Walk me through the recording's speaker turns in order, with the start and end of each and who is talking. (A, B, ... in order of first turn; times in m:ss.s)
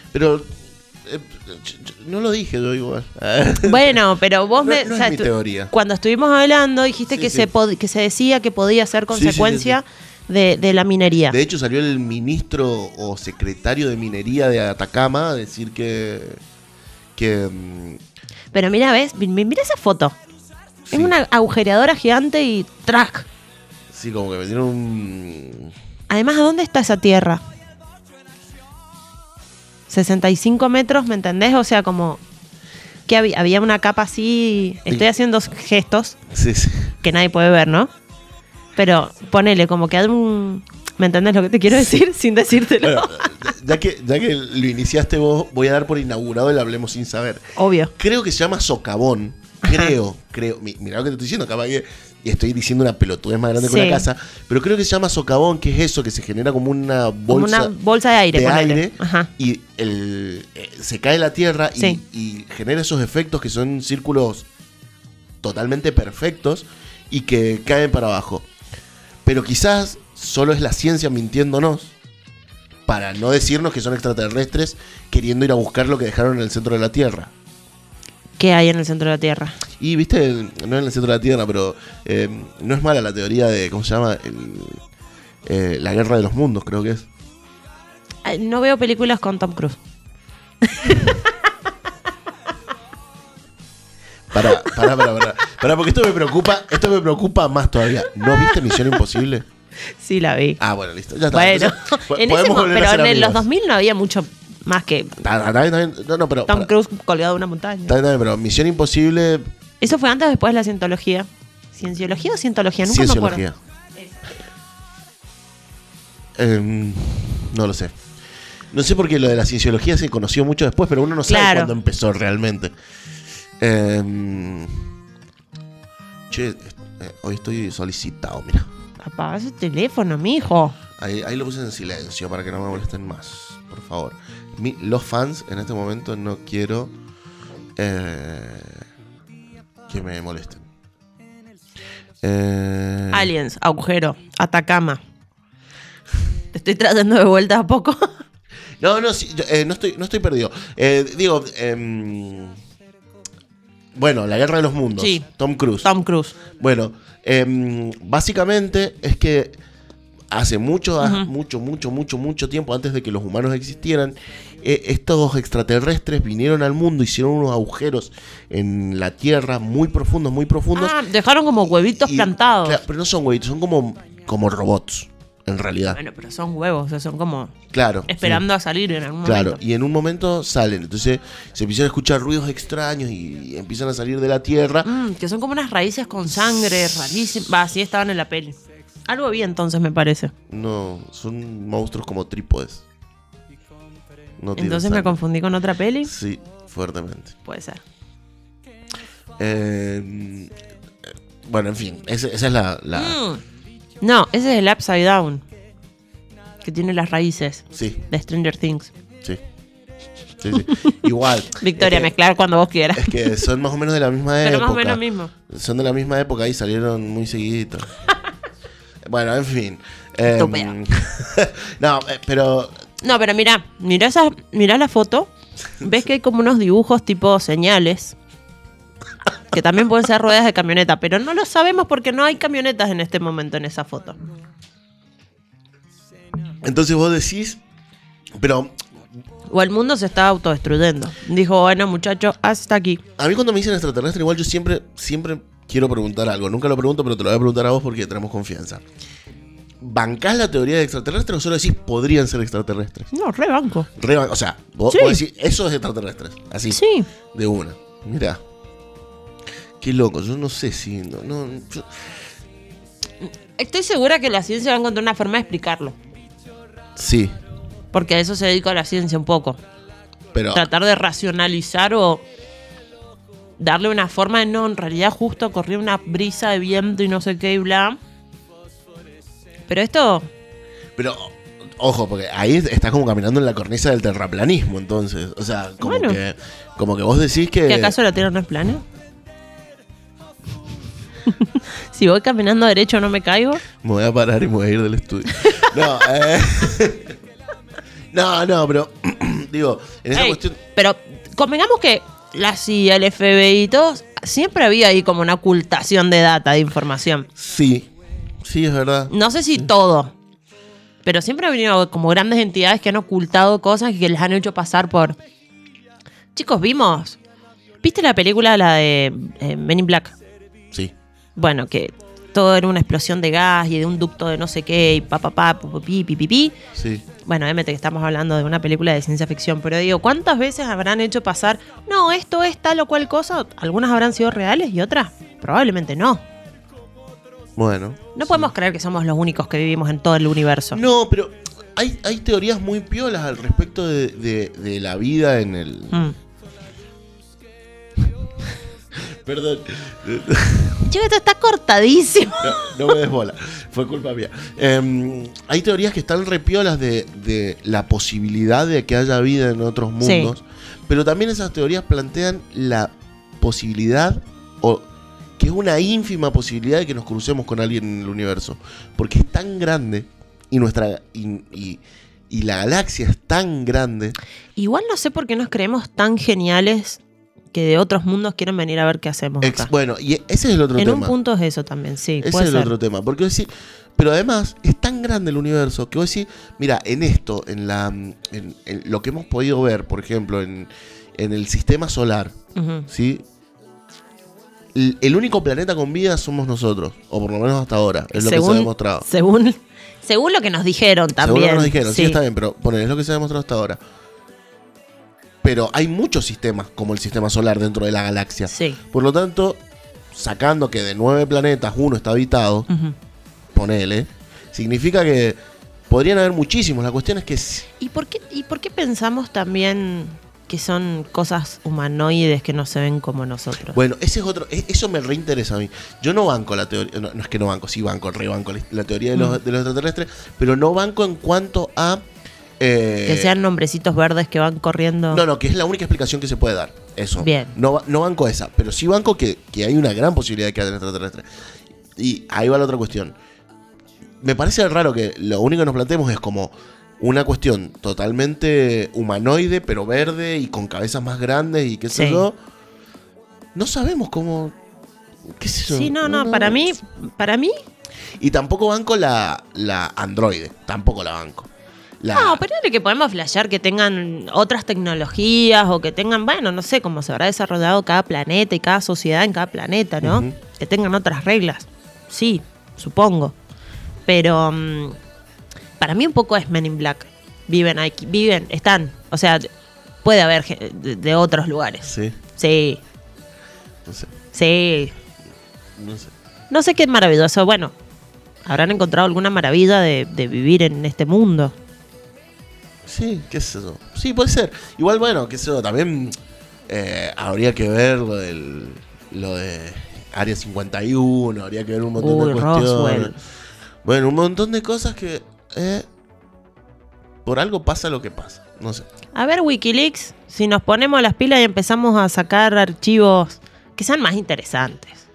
0:00.1-0:04.0 A
0:03.6-0:11.4 B
0:04.6-0:05.7 A
0:07.1-0:07.5 A
0:09.1-0:09.8 A
0:11.3-0:16.4 A
0:17.2-0:18.0 A
0:18.5-0:20.2 B
0:20.9-0:21.2 A
0:20.9-0:23.3 B
0:23.9-0:25.7 A
0:26.1-0:27.4 B
0:29.9-0:32.2 B
0:33.1-0:36.2 B
0:36.3-0:37.0 A
0:37.0-0:37.9 B
0:38.8-0:43.3 B
0:41.7-0:42.0 A
0:42.8-0:47.5 A
0:47.6-0:47.9 B
0:48.0-0:57.7 A
0:49.6-0:49.9 B
0:53.6-0:54.1 B
0:57.3-0:59.3 B
0:58.3-1:04.5 A
1:05.4-1:08.5 A
1:09.2-1:11.9 A
1:12.9-1:17.3 A
1:18.4-1:19.6 B
1:19.8-1:24.8 A
1:25.4-1:27.1 A
1:28.2-1:29.8 B
1:30.6-1:31.3 B
1:34.3-1:39.4 A
1:38.2-1:38.7 B
1:40.0-1:40.6 B
1:40.6-1:43.4 A
1:41.3-1:45.2 B
1:45.2-1:46.7 A
1:46.5-1:47.9 B
1:47.9-1:49.5 A
1:49.8-1:53.4 B
1:52.8-1:53.6 A
1:56.4-1:58.0 A
1:58.7-2:02.7 A
2:01.3-2:01.7 B
2:03.6-2:04.9 A
2:06.3-2:08.7 A
2:09.0-2:10.8 B
2:11.0-2:16.9 A
2:17.8-2:18.8 A
2:19.9-2:20.7 A
2:22.2-2:23.3 A
2:23.1-2:25.0 B
2:26.5-2:28.1 B
2:28.8-2:32.6 A
2:34.0-2:35.9 A
2:35.0-2:35.3 B
2:35.8-2:36.4 B
2:36.6-2:39.6 A
2:40.3-2:51.0 A
2:41.0-2:41.3 B
2:50.8-2:52.8 B
2:51.9-2:56.0 A
2:55.9-2:57.5 B
2:57.7-2:58.4 A
2:58.1-2:59.6 B
2:59.2-3:04.9 A
3:04.8-3:08.6 B
3:09.1-3:10.3 B
3:10.5-3:12.8 A
3:14.4-3:15.2 A
3:14.6-3:16.1 B
3:16.0-3:17.4 A
3:17.4-3:17.8 B
3:19.4-3:20.5 A
3:21.4-3:23.2 A
3:23.0-3:23.4 B
3:24.0-3:25.4 B
3:26.6-3:28.9 B
3:27.7-3:28.0 A
3:30.4-3:32.1 A
3:31.6-3:33.4 B
3:32.9-3:37.9 A
3:34.4-3:35.3 B
3:39.0-3:42.8 A
3:40.2-3:40.8 B
3:43.0-3:45.3 B
3:45.8-3:48.2 B
3:49.5-3:54.2 B
3:56.6-3:57.6 A
3:58.4-3:58.8 A
3:59.5-4:03.0 B
4:03.2-4:08.8 A
4:09.8-4:13.1 A
4:13.1-4:13.9 B
4:14.0-4:18.4 A
4:14.9-4:15.2 B
4:16.7-4:17.1 B
4:19.8-4:22.0 A
4:23.6-4:26.0 B
4:27.0-4:27.4 A
4:27.9-4:29.6 B
4:30.3-4:30.7 A
4:30.5-4:32.2 B
4:33.6-4:38.0 B
4:39.7-4:40.3 B
4:41.0-4:48.0 A
4:45.8-4:46.2 B
4:47.7-4:48.8 B
4:51.3-4:53.6 B
4:53.8-4:57.2 A
4:58.1-5:00.6 A
5:00.1-5:07.3 B
5:07.4-5:07.9 A
5:08.4-5:09.7 A
5:09.1-5:10.1 B
5:11.0-5:15.2 B
5:16.4-5:17.2 B
5:17.8-5:20.2 B
5:21.4-5:26.6 B
5:26.7-5:27.1 A
5:27.2-5:36.2 B
5:37.6-5:38.5 A
5:38.2-5:40.8 B
5:40.7-5:46.0 A
5:49.0-5:50.9 A
5:50.9-5:53.0 B
5:52.4-6:04.9 A
6:00.0-6:00.3 B
6:05.4-6:14.2 A
6:14.6-6:17.0 B
6:17.5-6:19.7 B
6:19.4-6:21.2 A
6:20.8-6:22.8 B
6:22.2-6:32.4 A
6:32.6-6:32.9 B
6:32.9-6:33.2 A
6:34.7-6:39.1 A
6:38.1-6:42.2 B
6:41.2-6:43.8 A
6:45.4-6:49.6 A
6:48.5-6:48.8 B
6:50.1-6:52.7 A
6:52.7-6:53.0 B
6:53.5-6:57.7 A
6:57.8-7:03.8 B
7:03.7-7:12.0 A
7:09.1-7:09.4 B
7:12.6-7:13.4 A
7:13.1-7:15.2 B
7:15.1-7:21.3 A
7:17.2-7:17.5 B
7:22.0-7:23.2 A
7:24.2-7:32.4 A
7:31.9-7:32.3 B
7:33.6-7:34.6 A
7:35.3-7:36.8 A
7:35.7-7:37.6 B
7:38.2-7:41.5 A
7:42.0-7:42.4 A
7:42.1-7:53.4 B
7:50.0-7:50.4 A
7:54.1-7:55.0 B
7:55.8-7:59.5 B
8:00.0-8:02.8 B
8:01.8-8:02.2 A
8:03.9-8:04.1 A
8:04.3-8:05.0 B
8:05.8-8:06.1 A
8:06.5-8:07.8 B
8:08.5-8:11.5 B
8:12.8-8:16.2 A
8:16.7-8:23.2 A
8:22.0-8:23.2 B
8:23.8-8:25.9 A
8:27.2-8:28.9 A
8:29.1-8:35.0 B